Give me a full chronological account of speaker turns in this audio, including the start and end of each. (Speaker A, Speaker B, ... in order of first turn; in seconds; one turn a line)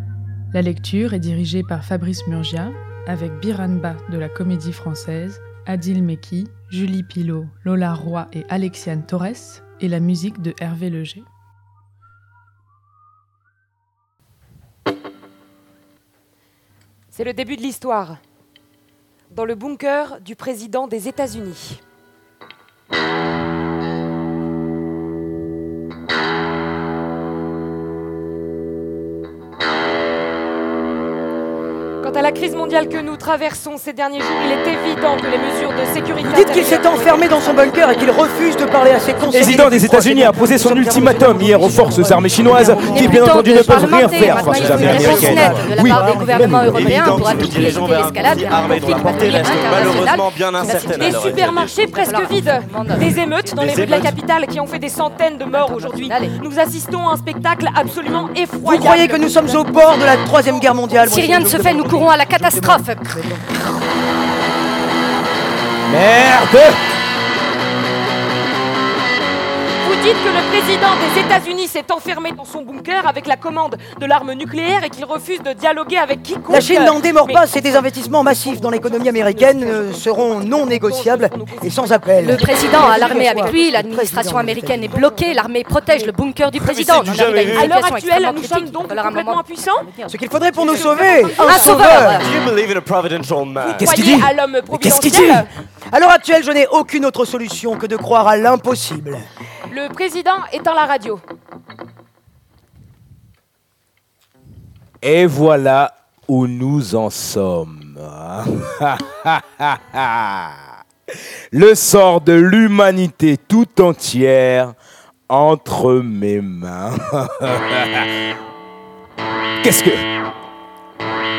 Speaker A: 0.5-11.2
Speaker B: 17.1-18.2
Speaker B: 19.3-21.8
Speaker B: 32.0-38.2
Speaker C: 36.2-46.7
Speaker B: 39.1-39.5
Speaker D: 39.3-47.7
Speaker E: 42.6-54.1
Speaker F: 44.8-45.5
Speaker F: 46.7-51.8
Speaker B: 49.7-50.0
Speaker B: 50.6-61.5
Speaker F: 53.6-54.2
Speaker E: 55.5-56.4
Speaker C: 58.6-63.5
Speaker E: 61.0-63.1
Speaker D: 65.8-66.8
Speaker B: 69.8-83.9
Speaker C: 76.5-85.0
Speaker E: 82.2-92.3
Speaker B: 84.9-86.1
Speaker F: 86.5-87.7
Speaker B: 87.5-90.0
Speaker C: 90.1-92.2
Speaker B: 90.5-92.2
Speaker F: 92.0-93.9
Speaker B: 93.6-95.5
Speaker D: 93.8-95.5
Speaker C: 95.9-99.2
Speaker B: 99.7-101.2
Speaker D: 105.0-110.7
Speaker D: 111.5-114.7
Speaker D: 115.3-118.2
Speaker D: 119.6-120.0